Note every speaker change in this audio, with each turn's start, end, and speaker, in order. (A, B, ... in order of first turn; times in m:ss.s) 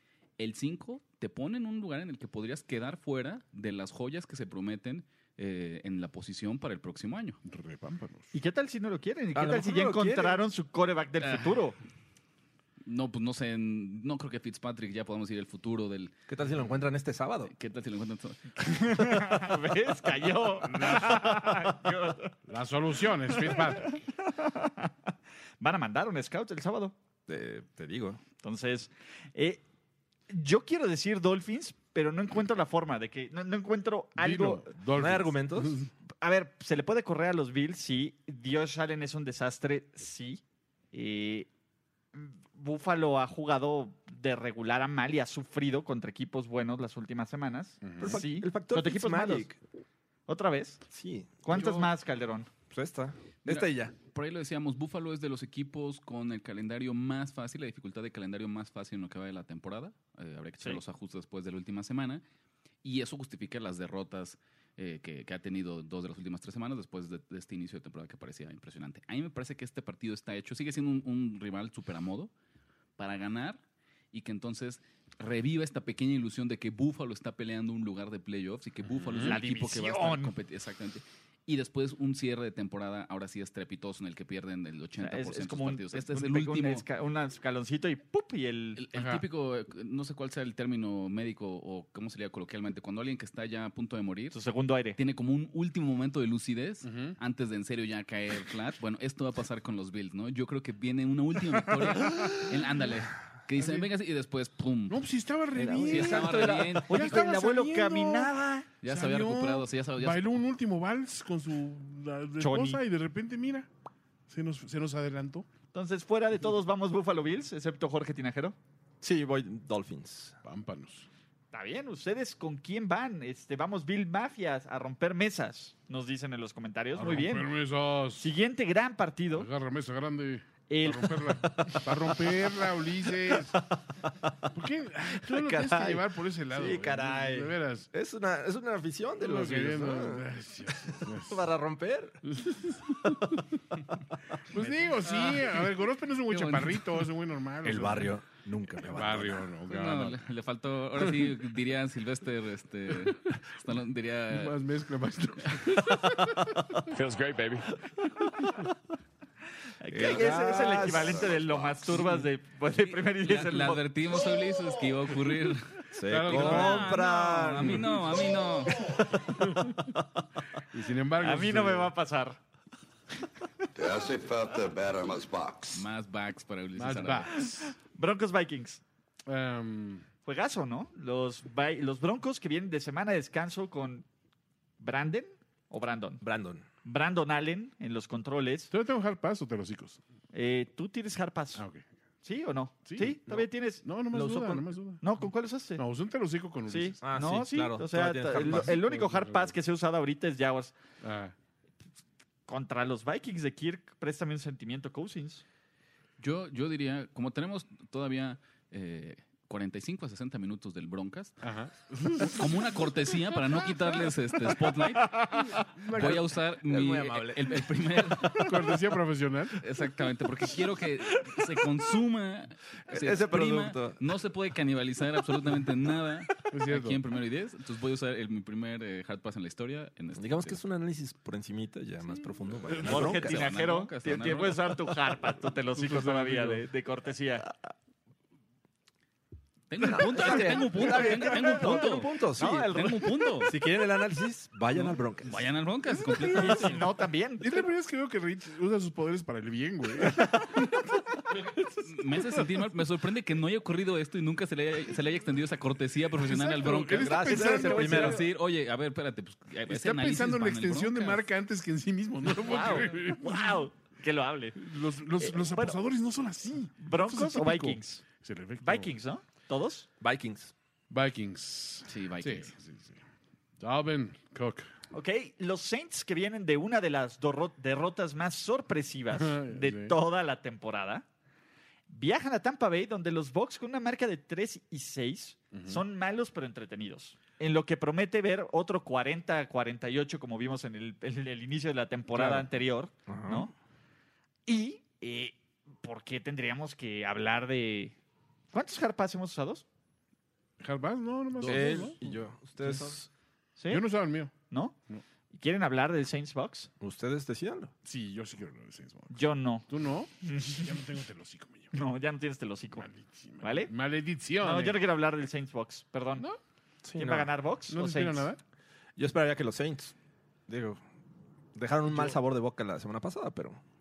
0:00.4-0:07.4 A
0:07.4-0:08.3 B
0:08.3-0:11.8 C
0:09.3-0:10.4 D
0:11.2-0:11.6 A
0:12.8-0:16.1 A
0:16.3-0:17.5 D
0:17.4-0:19.3 A
0:18.6-0:22.3 C
0:22.5-0:24.0 B
0:23.3-0:24.9 C
0:25.6-0:26.9 C
0:27.3-0:28.2 D
0:28.4-0:29.6 C
0:30.3-0:34.7 C
0:34.2-0:35.9 B
0:34.9-0:35.8 D
0:36.2-0:40.4 C
0:40.9-0:41.5 C
0:42.1-0:49.5 C
0:47.8-0:48.2 B
0:48.0-0:49.6 D
0:50.3-0:50.8 C
0:50.9-0:51.4 D
0:51.4-0:52.5 C
0:52.7-0:53.9 D
0:53.4-1:02.2 A
1:02.8-1:12.3 A
1:13.0-1:26.8 A
1:18.9-1:19.4 B
1:19.2-1:20.3 C
1:25.0-1:28.8 C
1:28.8-1:34.4 A
1:28.9-1:29.2 B
1:34.3-1:35.0 C
1:35.0-1:45.0 A
1:36.8-1:37.2 B
1:43.6-1:43.8 B
1:44.9-1:48.3 B
1:45.6-1:48.7 C
1:45.8-1:47.1 A
1:48.8-1:50.3 A
1:48.8-1:53.7 B
1:52.4-1:52.8 C
1:54.3-1:55.4 B
1:55.7-1:58.6 C
1:59.0-2:00.4 D
2:00.4-2:01.1 B
2:01.5-2:07.5 C
2:07.0-2:08.3 B
2:08.2-2:09.5 C
2:09.3-2:13.6 B
2:10.7-2:11.2 C
2:11.4-2:12.2 D
2:13.3-2:13.6 D
2:14.5-2:17.9 B
2:15.2-2:20.2 D
2:19.2-2:21.4 B
2:20.8-2:22.2 D
2:22.3-2:23.4 B
2:24.5-2:28.1 B
2:26.3-2:26.9 A
2:27.6-2:29.5 D
2:28.8-2:30.2 B
2:29.7-2:34.6 A
2:31.0-2:31.3 B
2:34.3-2:36.7 B
2:35.4-2:36.0 A
2:39.8-2:43.8 C
2:39.9-2:41.3 D
2:40.8-2:41.9 E
2:43.0-2:48.9 A
2:45.9-2:49.3 D
2:46.1-2:47.0 B
2:47.6-2:47.8 B
2:49.3-2:49.8 B
2:50.7-2:51.9 B
2:51.2-2:52.4 C
2:53.7-2:55.8 E
2:55.7-2:57.5 A
2:56.8-2:57.6 B
2:57.7-2:58.8 C
2:59.3-3:00.0 B
3:00.2-3:04.0 C
3:04.8-3:06.2 C
3:06.2-3:06.6 D
3:06.8-3:08.7 C
3:08.7-3:10.0 B
3:10.3-3:11.6 C
3:11.6-3:11.8 B
3:12.2-3:15.8 C
3:12.8-3:15.1 B
3:15.8-3:17.0 B
3:16.7-3:20.7 C
3:17.0-3:18.8 D
3:18.4-3:19.5 B
3:21.0-3:21.3 B
3:22.5-3:25.4 C
3:26.2-3:31.3 A
3:31.4-3:32.4 B
3:32.2-3:38.5 A
3:35.5-3:36.2 B
3:36.0-3:38.3 D
3:38.3-3:39.6 B
3:39.6-3:50.6 A
3:42.9-3:44.0 D
3:46.4-3:47.0 B
3:50.2-3:53.5 D
3:52.8-3:57.4 C
3:52.8-3:54.7 A
3:55.8-3:56.6 B
3:59.7-4:03.5 A
3:59.8-4:05.4 D
4:02.4-4:03.0 C
4:04.7-4:06.8 A
4:05.9-4:06.8 B
4:06.3-4:07.4 C
4:07.4-4:11.4 B
4:11.8-4:21.2 A
4:16.2-4:18.2 B
4:16.9-4:18.2 D
4:17.4-4:18.1 C
4:19.7-4:23.6 B
4:22.4-4:24.6 C
4:24.6-4:28.9 B
4:25.2-4:25.8 C
4:26.8-4:28.0 C
4:28.6-4:29.9 C
4:30.0-4:30.5 D
4:30.9-4:33.0 B
4:31.8-4:32.5 A
4:33.6-4:34.7 B
4:34.9-4:41.0 C
4:39.1-4:39.9 B
4:41.9-4:53.5 C
4:45.5-4:45.8 B
4:52.1-4:52.4 B
4:53.1-4:53.5 D
4:54.4-4:57.9 C
4:58.5-4:59.6 C
5:00.6-5:02.0 B
5:01.4-5:01.9 A
5:01.4-5:03.1 D
5:03.6-5:03.8 C
5:03.7-5:04.3 B
5:04.5-5:04.7 C
5:05.3-5:06.7 C
5:06.8-5:07.7 D
5:07.8-5:11.7 B
5:09.1-5:09.6 C
5:10.2-5:10.8 C
5:11.7-5:12.8 C
5:12.8-5:14.8 B
5:13.4-5:13.7 C
5:14.4-5:16.2 C
5:16.8-5:17.3 D
5:17.0-5:18.3 C
5:17.7-5:18.4 B
5:19.0-5:19.9 D
5:20.5-5:20.8 D
5:21.5-5:23.6 D